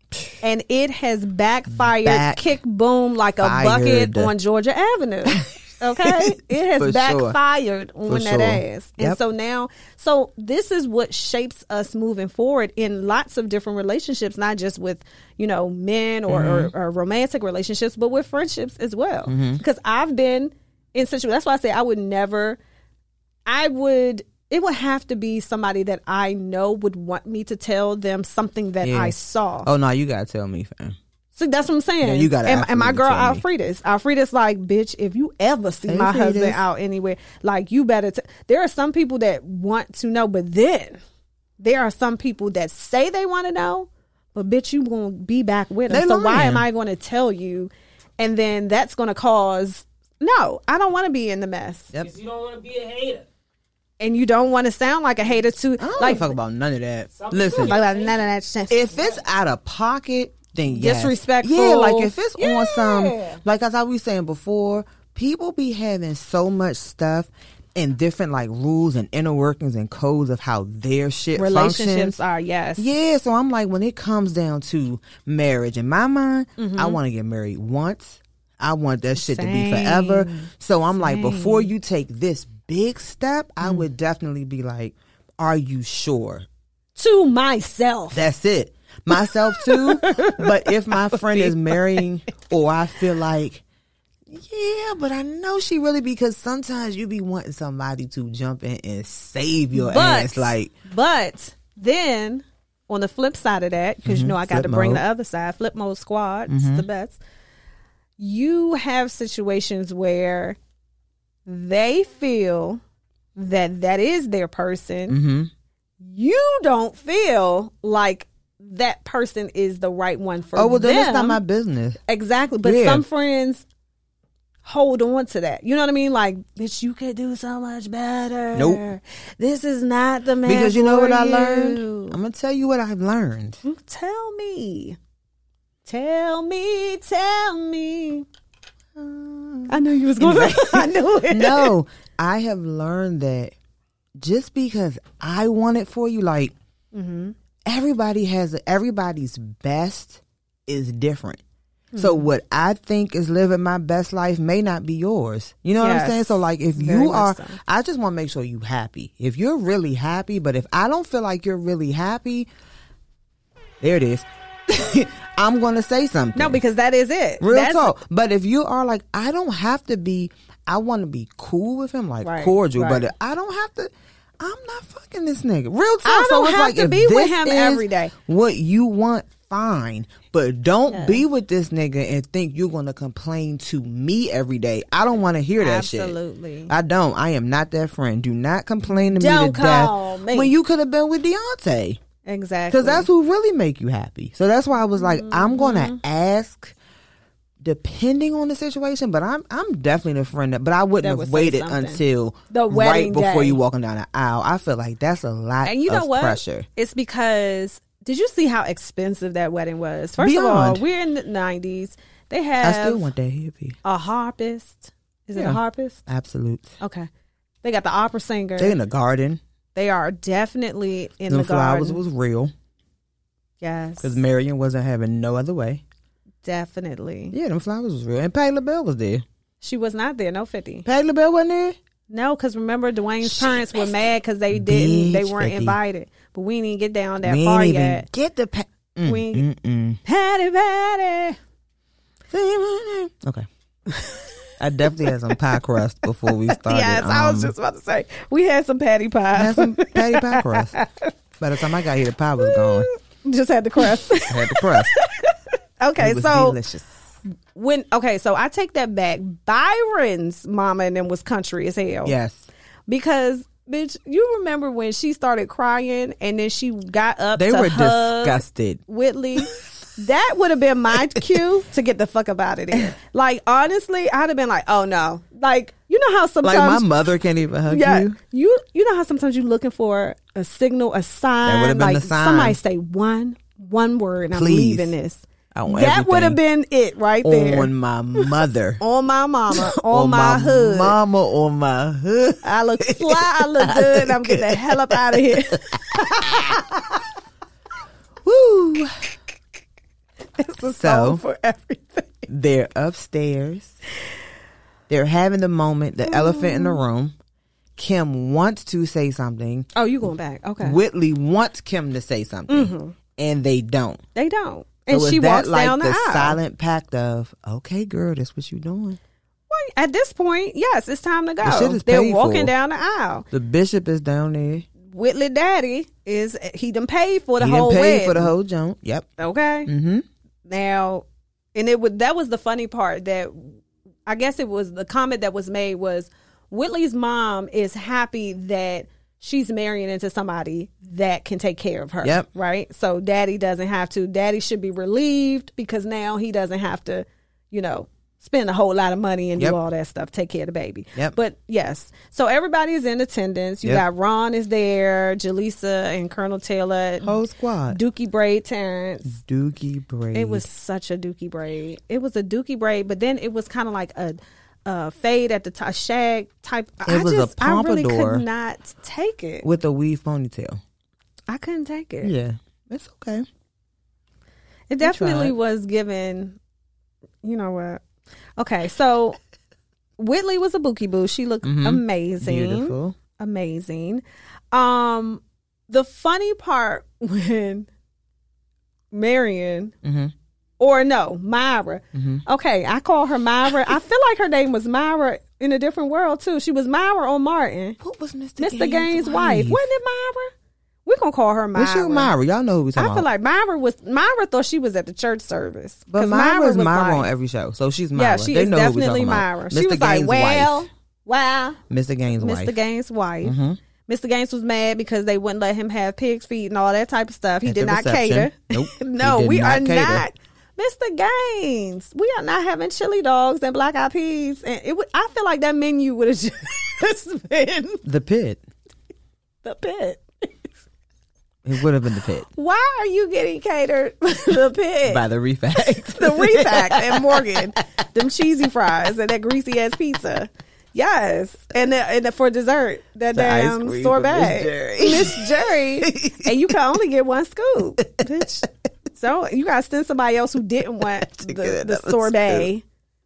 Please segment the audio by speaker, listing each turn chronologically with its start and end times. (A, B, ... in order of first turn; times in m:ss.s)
0:00.4-0:22.6 A
0:01.7-0:02.6 B
0:03.4-0:04.3 B
0:06.0-0:07.4 B
0:08.1-0:09.2 B
0:16.3-0:16.7 B
0:19.3-0:19.6 B
0:23.5-0:29.7 A
0:28.8-0:31.0 B
0:31.4-0:41.0 A
0:32.0-0:33.4 B
0:35.9-0:36.6 B
0:41.6-0:51.9 A
0:45.9-0:46.7 B
0:52.0-0:53.3 C
0:54.0-0:56.3 A
0:55.8-0:57.8 B
0:57.1-0:58.3 C
0:57.5-0:58.9 A
0:58.7-1:12.2 B
1:00.7-1:03.4 A
1:11.4-1:12.9 A
1:12.8-1:26.5 B
1:16.6-1:17.0 A
1:19.2-1:21.7 A
1:27.0-1:28.2 A
1:28.1-1:33.6 B
1:29.2-1:32.0 A
1:34.3-1:40.7 B
1:39.7-1:47.2 A
1:44.1-1:45.0 B
1:46.5-1:46.8 B
1:48.2-1:50.6 A
1:51.5-1:52.8 A
1:53.4-1:55.2 A
1:55.1-1:55.5 B
1:56.0-2:01.4 A
2:00.6-2:02.0 B
2:02.1-2:03.6 A
2:02.6-2:03.0 B
2:04.6-2:12.2 A
2:08.5-2:08.8 B
2:10.4-2:13.6 B
2:13.6-2:15.0 A
2:15.9-2:18.3 A
2:19.0-2:23.5 B
2:19.7-2:21.8 A
2:24.2-2:26.5 B
2:26.9-2:27.4 A
2:27.7-2:31.4 B
2:31.9-2:32.3 A
2:32.0-2:42.5 B
2:35.8-2:37.6 A
2:43.8-2:46.6 B
2:46.4-2:48.0 A
2:47.4-3:06.2 B
2:52.2-2:53.1 A
2:56.0-2:58.1 A
3:00.9-3:01.2 A
3:05.6-3:06.7 A
3:06.7-3:12.0 B
3:08.9-3:10.5 A
3:12.2-3:13.1 A
3:12.7-3:16.7 B
3:15.0-3:16.0 A
3:17.6-3:26.7 B
3:21.0-3:23.6 A
3:25.6-3:33.1 A
3:30.2-3:30.8 B
3:32.6-3:33.8 B
3:33.8-3:36.0 A
3:35.3-3:36.7 B
3:36.8-3:37.1 A
3:37.6-3:38.8 A
3:38.6-3:39.4 B
3:39.8-3:42.0 A
3:41.3-3:42.5 B
3:43.6-3:44.2 A
3:44.0-3:45.8 B
3:46.4-3:47.4 A
3:47.3-3:49.2 B
3:49.6-3:50.9 A
3:50.8-3:51.8 B
3:52.1-3:58.1 A
3:53.2-3:53.8 B
3:54.5-3:55.8 B
3:57.2-4:00.0 B
3:59.0-3:59.5 A
4:00.0-4:01.4 A
4:02.3-4:03.5 B
4:04.0-4:04.3 A
4:04.6-4:07.5 B
4:06.5-4:11.1 A
4:09.3-4:10.8 B
4:11.4-4:12.9 B
4:12.4-4:16.6 A
4:14.3-4:14.9 B
4:16.0-4:17.0 B
4:17.6-4:22.2 A
4:22.0-4:22.5 B
4:22.9-4:36.8 A
4:27.4-4:28.8 B
4:36.4-4:38.2 B
4:37.7-4:51.0 A
4:41.4-4:42.6 B
4:44.3-4:44.9 B
4:45.5-4:46.4 B
4:47.2-4:48.8 B
4:49.5-4:56.6 B
4:52.4-4:57.0 A
4:58.2-4:59.0 B
5:00.4-5:02.3 A
5:00.8-5:01.2 B
5:02.3-5:03.8 B
5:04.9-5:07.1 B
5:06.1-5:06.8 A
5:07.8-5:09.7 B
5:09.8-5:10.8 A
5:10.6-5:14.0 B
5:12.5-5:13.0 A
5:14.2-5:16.4 A
5:14.9-5:19.0 B
5:19.5-5:23.3 A
5:21.4-5:22.5 B
5:23.3-5:24.7 B
5:24.9-5:28.3 A
5:27.4-5:29.1 B
5:29.2-5:29.7 A
5:29.7-5:30.0 B
5:30.5-5:57.2 A
5:57.0-5:57.8 B
5:57.7-5:59.2 A
5:59.1-6:00.5 B
6:00.1-6:09.5 A
6:06.9-6:08.3 B
6:09.4-6:10.6 B
6:11.3-6:12.1 A
6:12.0-6:13.3 B
6:14.7-6:16.4 A
6:14.8-6:15.3 B
6:17.2-6:17.8 A
6:18.4-6:19.2 A
6:20.0-6:27.7 A
6:21.4-6:23.0 B
6:28.9-6:29.7 A
6:29.8-6:30.1 B
6:30.6-6:37.8 A
6:31.9-6:32.2 B
6:37.8-6:39.7 B
6:38.4-6:40.3 A
6:40.8-6:42.1 A
6:41.6-6:43.1 B
6:42.8-6:47.1 A
6:45.9-6:50.7 B
6:47.9-6:51.6 A
6:51.7-6:52.6 B
6:52.2-7:07.8 A
6:53.2-6:53.6 B
6:57.4-7:00.1 B
7:07.8-7:08.4 B
7:09.4-7:10.3 A
7:11.4-7:12.3 B
7:12.3-7:15.0 A
7:14.9-7:17.5 B
7:15.7-7:32.6 A
7:23.1-7:26.5 B
7:31.0-7:32.5 B